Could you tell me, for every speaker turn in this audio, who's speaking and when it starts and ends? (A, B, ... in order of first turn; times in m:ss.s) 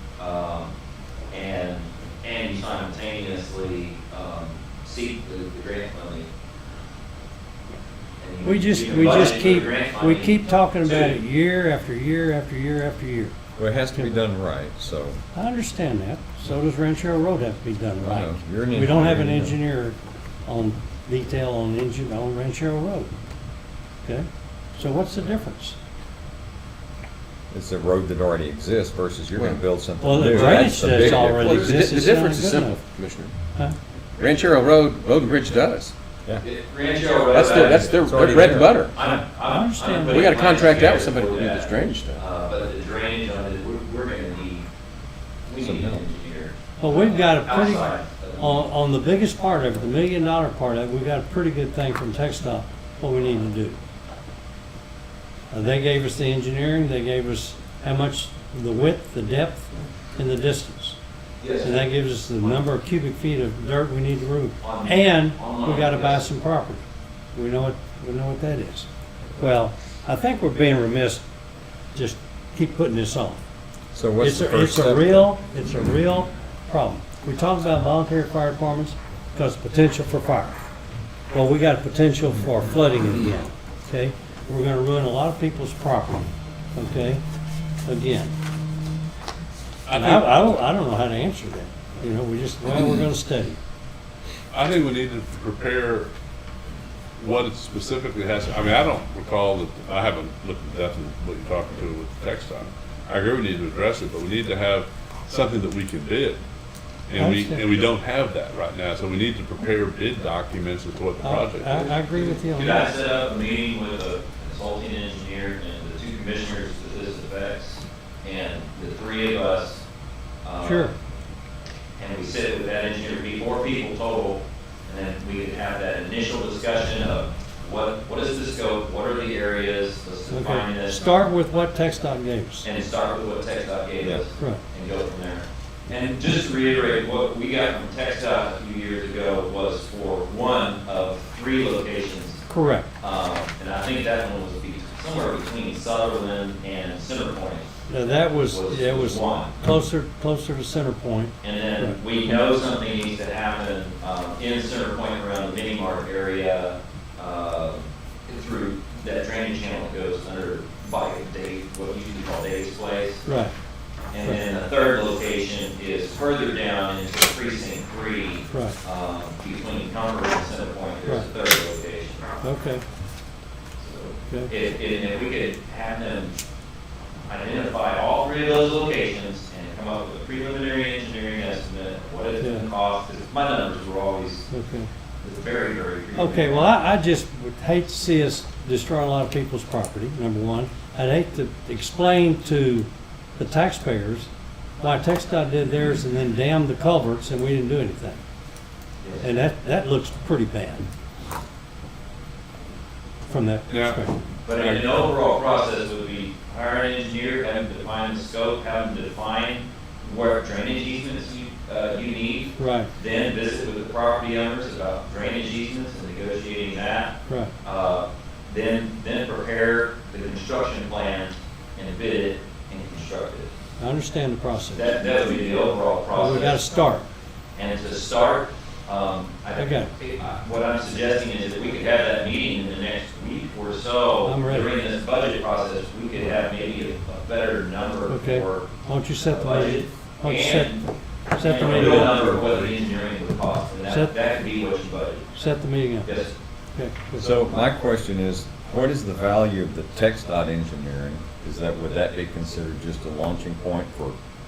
0:00.2-0:00.7 A
0:01.3-0:06.3 A
0:08.2-0:11.2 A
0:08.4-0:13.4 B
0:13.6-0:15.2 C
0:15.3-0:23.1 B
0:18.0-0:19.6 C
0:24.0-0:25.8 B
0:27.5-0:31.8 C
0:29.4-0:29.6 D
0:30.0-0:32.8 B
0:30.2-0:33.3 D
0:34.2-0:35.9 D
0:36.4-0:44.7 A
0:37.3-0:38.9 D
0:37.8-0:38.8 C
0:39.5-0:40.1 B
0:40.0-0:42.2 D
0:45.5-0:48.7 A
0:45.6-0:46.0 C
0:46.8-0:53.8 B
0:55.5-1:01.0 B
1:01.4-1:01.8 A
1:01.6-1:11.2 B
1:04.6-1:06.3 A
1:11.9-1:13.4 B
1:13.9-1:15.3 C
1:14.2-1:20.6 B
1:21.3-1:27.2 B
1:27.8-1:28.3 B
1:29.9-1:30.7 E
1:29.9-1:33.6 B
1:34.5-1:36.1 E
1:37.2-1:46.4 E
1:47.1-1:52.0 E
1:47.2-1:47.6 B
1:51.2-1:52.9 B
1:52.1-1:59.8 A
2:00.4-2:00.9 A
2:00.6-2:01.0 B
2:02.0-2:11.0 A
2:10.3-2:12.7 B
2:12.6-2:22.4 A
2:14.4-2:14.6 B
2:22.5-2:22.9 B
2:23.0-2:27.7 A
2:27.9-2:32.0 B
2:28.4-2:29.6 A
2:31.4-2:43.3 A
2:43.2-2:43.5 B
2:44.1-2:52.3 A
2:48.5-2:48.8 B
2:52.4-2:52.8 B
2:53.8-2:56.4 A
2:57.3-3:04.5 A
3:02.4-3:02.7 B
3:04.5-3:04.9 B
3:05.2-3:06.7 A
3:06.2-3:18.2 B
3:19.0-3:19.3 A
3:19.2-3:20.9 B
3:23.3-3:24.2 B
3:23.7-3:24.0 E
3:24.4-3:43.5 A
3:32.6-3:32.9 B
3:37.3-3:37.6 B
3:43.8-3:45.0 B
3:44.8-3:46.6 A
3:46.1-3:47.1 B
3:47.6-3:58.7 A
3:49.6-3:49.9 B
3:54.2-3:54.7 B
3:58.1-4:02.4 B
3:59.2-4:05.3 A
4:03.9-4:04.2 B
4:05.3-4:06.1 B
4:06.0-4:06.4 A
4:06.7-4:07.3 B
4:07.2-4:14.2 C